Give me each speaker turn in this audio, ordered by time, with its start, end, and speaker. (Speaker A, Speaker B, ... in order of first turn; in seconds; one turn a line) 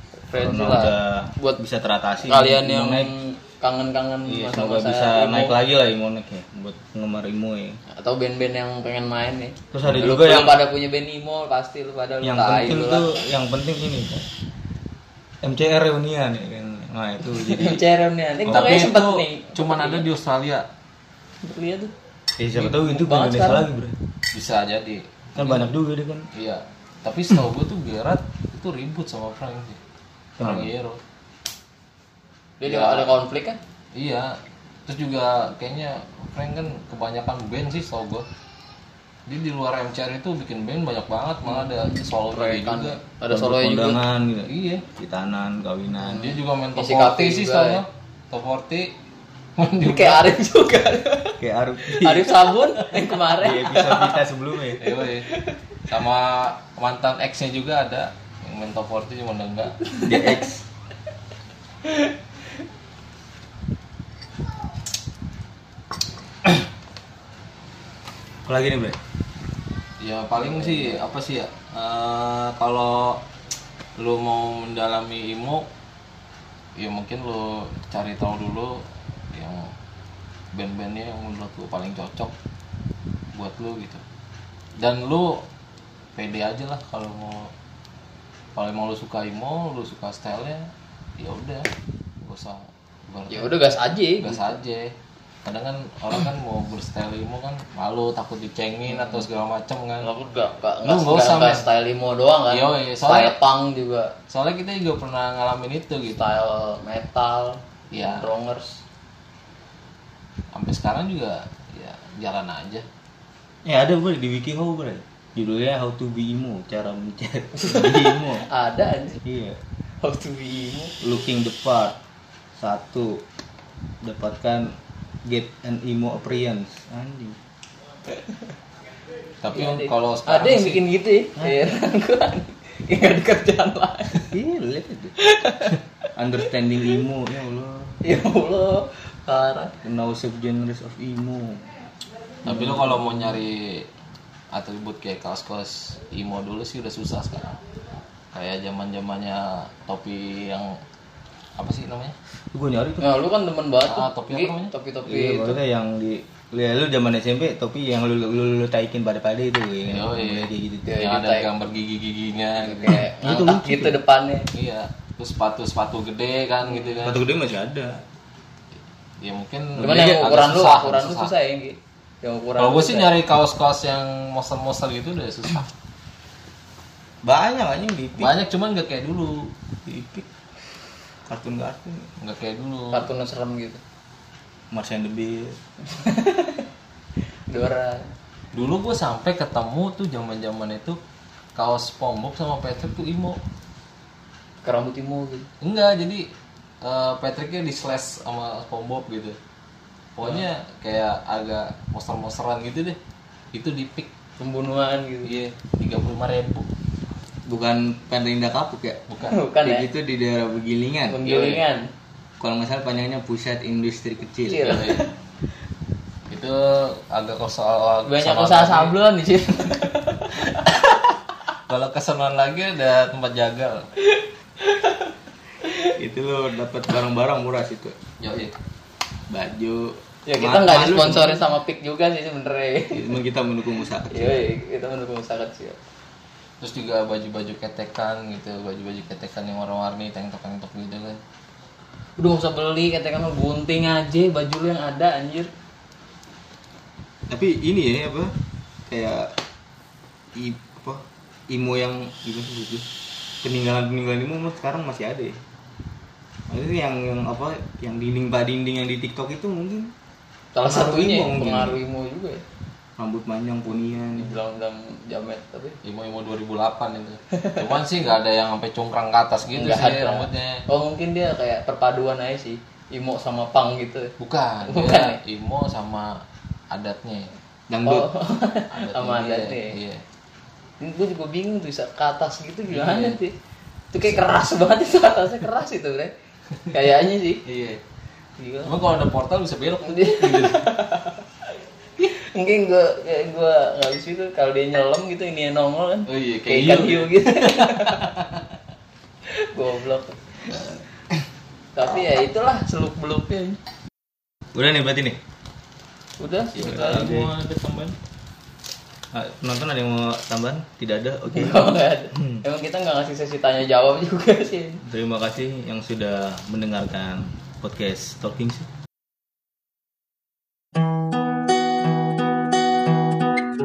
Speaker A: 0.3-1.6
Speaker B: 0.4-3.1
Speaker A: 2.2-5.6
Speaker B: 4.3-7.8
Speaker A: 7.9-13.2
Speaker B: 9.7-10.6
Speaker B: 12.2-14.2
Speaker B: 15.4-17.8
Speaker A: 17.2-20.1
Speaker B: 18.5-18.9
Speaker C: 18.5-20.7
Speaker A: 21.4-21.9
Speaker B: 22.4-24.0
Speaker A: 22.5-23.7
Speaker C: 24.3-25.7
Speaker B: 25.4-26.3
Speaker C: 26.3-29.8
Speaker B: 30.4-30.7
Speaker C: 30.4-31.0
Speaker A: 32.6-33.6
Speaker C: 32.6-33.1
Speaker C: 34.0-38.3
Speaker C: 39.3-43.0
Speaker A: 41.5-44.0
Speaker B: 43.3-46.4
Speaker C: 44.5-44.9
Speaker A: 46.0-47.8
Speaker C: 46.1-48.9
Speaker C: 49.6-50.3
Speaker A: 49.8-54.2
Speaker B: 51.4-52.5
Speaker B: 53.3-54.8
Speaker C: 54.8-55.3
Speaker A: 55.2-55.8
Speaker C: 55.9-59.8
Speaker A: 59.9-60.5
Speaker B: 60.0-60.6
Speaker B: 68.5-69.0
Speaker C: 70.0-73.2
Speaker C: 74.0-75.7
Speaker C: 76.8-79.7
Speaker C: 80.5-82.3
Speaker C: 83.3-84.0
Speaker C: 84.8-85.4
Speaker C: 86.2-87.5
Speaker C: 88.5-91.7
Speaker C: 92.2-93.5
Speaker A: 93.3-94.6
Speaker C: 94.2-94.9
Speaker C: 95.5-100.1
Speaker A: 98.9-99.2
Speaker A: 100.0-104.1
Speaker C: 100.8-101.7
Speaker C: 102.5-103.4
Speaker C: 104.3-106.2
Speaker A: 106.2-108.8
Speaker C: 107.9-108.3
Speaker C: 110.5-112.9
Speaker B: 113.7-118.5
Speaker A: 117.5-119.2
Speaker B: 119.2-119.6
Speaker A: 120.0-120.9
Speaker B: 121.0-122.0
Speaker B: 122.6-123.2
Speaker B: 124.0-127.4
Speaker C: 129.4-130.8
Speaker A: 129.5-134.3
Speaker B: 134.2-135.2
Speaker A: 135.2-135.8
Speaker B: 136.2-138.0
Speaker A: 138.0-139.7
Speaker B: 139.8-141.7
Speaker B: 142.4-143.4
Speaker C: 142.4-143.9
Speaker C: 144.5-147.6
Speaker C: 148.3-150.8
Speaker C: 151.6-152.2
Speaker B: 152.5-153.1
Speaker A: 153.0-155.6
Speaker C: 153.9-154.7
Speaker B: 155.1-161.0
Speaker C: 159.9-163.1
Speaker A: 160.9-161.5
Speaker A: 162.6-164.5
Speaker B: 163.2-164.0
Speaker C: 164.5-167.2
Speaker A: 166.7-167.0
Speaker B: 167.0-168.0
Speaker C: 169.2-171.3
Speaker B: 169.8-170.3
Speaker A: 169.8-173.2
Speaker C: 172.6-175.7
Speaker B: 177.2-178.3
Speaker C: 178.2-179.5
Speaker B: 179.9-180.3
Speaker B: 181.3-182.1
Speaker C: 182.2-183.1
Speaker A: 182.9-183.8
Speaker B: 184.7-185.6
Speaker A: 185.9-186.7
Speaker A: 187.5-188.1
Speaker C: 188.5-191.0
Speaker C: 191.6-193.4
Speaker A: 194.6-195.5
Speaker C: 195.6-196.3
Speaker C: 196.8-199.4
Speaker C: 200.2-203.0
Speaker C: 203.5-204.1
Speaker A: 204.4-205.3
Speaker C: 205.2-206.7
Speaker B: 207.5-209.0
Speaker C: 209.1-209.4
Speaker A: 209.2-209.9
Speaker B: 209.6-211.2
Speaker A: 211.1-211.9
Speaker C: 211.2-211.6
Speaker B: 212.4-214.9
Speaker A: 214.5-215.1
Speaker C: 214.7-215.0
Speaker C: 216.3-219.0
Speaker A: 218.1-220.8
Speaker C: 221.7-223.9
Speaker A: 224.1-225.1
Speaker A: 225.7-225.9
Speaker B: 225.9-228.1
Speaker C: 228.2-228.5
Speaker B: 229.3-231.4
Speaker A: 230.3-233.1
Speaker B: 232.9-234.5
Speaker A: 234.1-235.8
Speaker C: 236.6-241.2
Speaker A: 242.2-245.5
Speaker B: 247.3-248.3
Speaker B: 248.9-249.3
Speaker B: 250.3-252.9
Speaker B: 253.4-255.4
Speaker B: 256.5-259.9
Speaker A: 260.5-262.4
Speaker B: 260.6-261.8
Speaker B: 263.0-264.3
Speaker A: 264.2-265.8
Speaker C: 265.8-270.6
Speaker A: 267.3-267.8
Speaker A: 269.5-275.2
Speaker C: 274.2-277.3
Speaker B: 277.7-278.1
Speaker A: 277.9-279.8
Speaker C: 278.7-280.0
Speaker A: 280.8-283.4
Speaker C: 282.7-283.2
Speaker A: 283.9-286.1
Speaker A: 286.7-287.4
Speaker C: 287.5-287.8
Speaker A: 288.4-288.8
Speaker C: 288.6-290.7
Speaker A: 289.8-291.4
Speaker A: 292.0-298.2
Speaker C: 296.1-297.9
Speaker A: 299.3-300.6
Speaker A: 301.8-303.6
Speaker B: 304.5-305.2
Speaker A: 306.2-307.1
Speaker C: 306.6-308.0
Speaker B: 306.6-307.3
Speaker B: 309.1-312.4
Speaker A: 311.3-314.8
Speaker B: 314.8-318.7